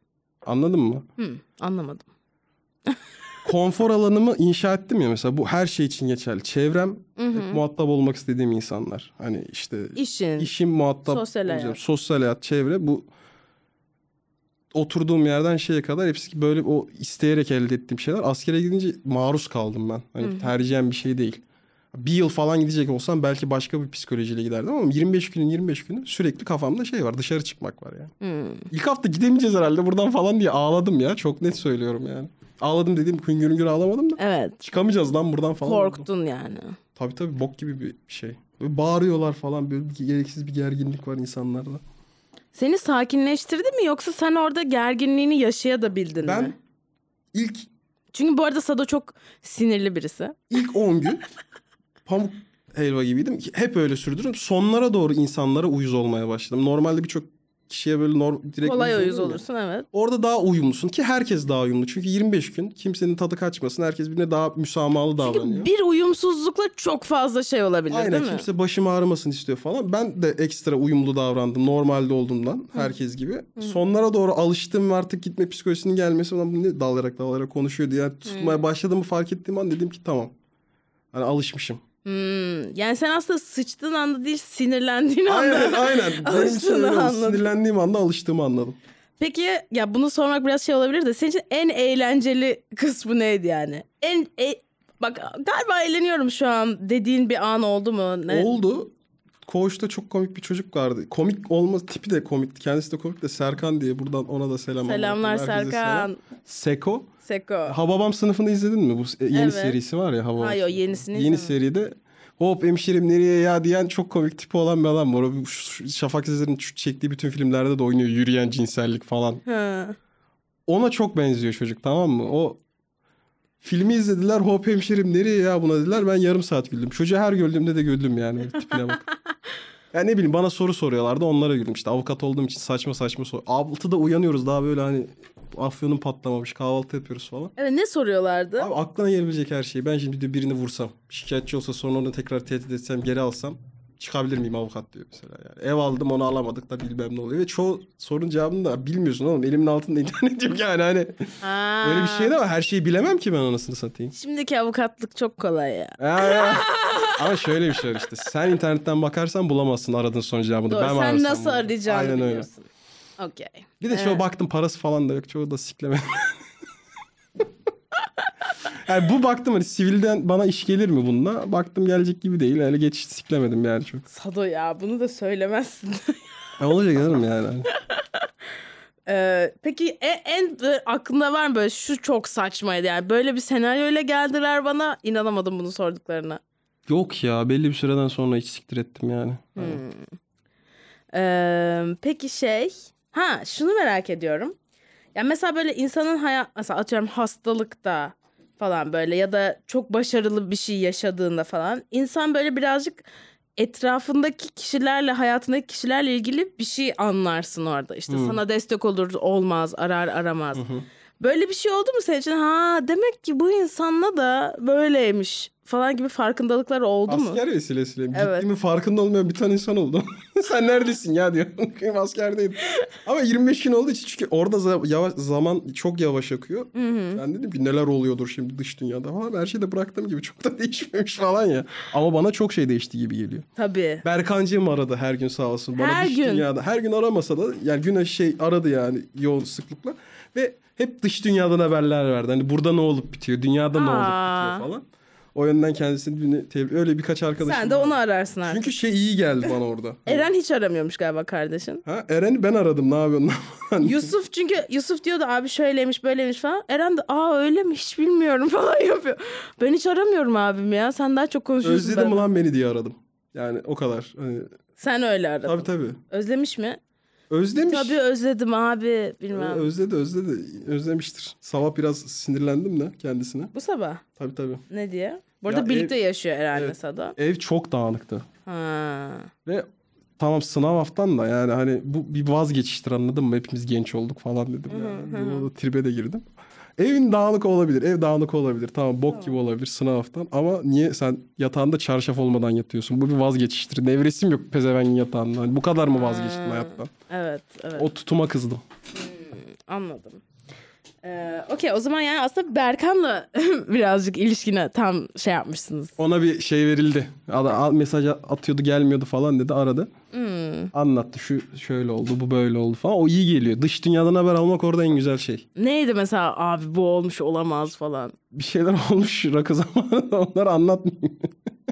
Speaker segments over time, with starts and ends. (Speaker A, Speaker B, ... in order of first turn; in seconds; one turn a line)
Speaker A: 0.4-1.1
Speaker B: 1.2-2.1
Speaker A: 3.4-13.1
Speaker B: 7.2-7.6
Speaker B: 9.9-10.5
Speaker B: 11.1-11.8
Speaker A: 14.7-21.4
Speaker B: 20.2-20.5
Speaker A: 21.9-28.1
Speaker B: 28.2-28.7
Speaker A: 28.7-36.1
Speaker B: 34.2-34.6
Speaker B: 35.6-36.8
Speaker A: 37.0-41.8
Speaker B: 42.5-46.5
Speaker A: 46.2-46.5
Speaker A: 47.3-47.7
Speaker B: 48.1-50.4
Speaker A: 50.5-51.2
Speaker A: 52.0-65.7
Speaker B: 58.6-59.9
Speaker B: 65.2-68.5
Speaker A: 67.9-80.3
Speaker B: 78.2-78.6
Speaker A: 81.1-81.8
Speaker B: 82.0-87.5
Speaker A: 85.3-88.8
Speaker B: 89.2-98.5
Speaker A: 98.3-98.9
Speaker A: 99.4-107.1
Speaker B: 104.8-106.2
Speaker B: 107.2-107.8
Speaker A: 107.7-119.4
Speaker B: 109.3-109.8
Speaker B: 110.4-111.5
Speaker B: 119.5-120.0
Speaker A: 120.7-122.6
Speaker A: 123.6-129.0
Speaker A: 129.9-137.5
Speaker B: 137.6-138.7
Speaker A: 138.6-154.1
Speaker B: 151.4-152.3
Speaker B: 154.1-157.5
Speaker A: 156.0-162.5
Speaker B: 160.7-162.7
Speaker B: 163.2-164.2
Speaker A: 163.8-166.4
Speaker A: 168.6-174.0
Speaker B: 174.1-176.2
Speaker A: 176.6-177.7
Speaker B: 179.1-186.4
Speaker A: 186.9-189.8
Speaker B: 189.6-190.1
Speaker B: 191.1-194.5
Speaker B: 195.1-203.0
Speaker B: 203.6-210.6
Speaker A: 208.1-208.4
Speaker A: 210.5-210.8
Speaker B: 211.2-217.4
Speaker A: 217.1-233.4
Speaker B: 218.1-218.4
Speaker B: 226.7-227.2
Speaker B: 233.6-234.0
Speaker A: 234.0-250.3
Speaker B: 235.8-236.4
Speaker B: 243.7-244.7
Speaker B: 247.4-248.7
Speaker B: 250.1-251.8
Speaker A: 251.8-254.1
Speaker B: 253.8-262.2
Speaker A: 261.6-264.5
Speaker B: 264.8-266.8
Speaker A: 265.4-266.0
Speaker A: 267.3-268.0
Speaker B: 267.6-269.7
Speaker A: 269.3-273.5
Speaker B: 273.5-274.0
Speaker A: 274.2-274.6
Speaker B: 274.7-277.1
Speaker A: 275.5-275.9
Speaker A: 276.5-278.3
Speaker B: 278.4-279.3
Speaker A: 280.2-286.2
Speaker B: 284.7-285.5
Speaker A: 286.8-296.9
Speaker B: 295.9-297.9
Speaker A: 297.8-298.6
Speaker B: 298.9-300.2
Speaker B: 301.0-306.0
Speaker A: 306.0-309.9
Speaker B: 310.1-310.7
Speaker A: 310.7-315.4
Speaker B: 315.6-318.1
Speaker A: 318.3-321.5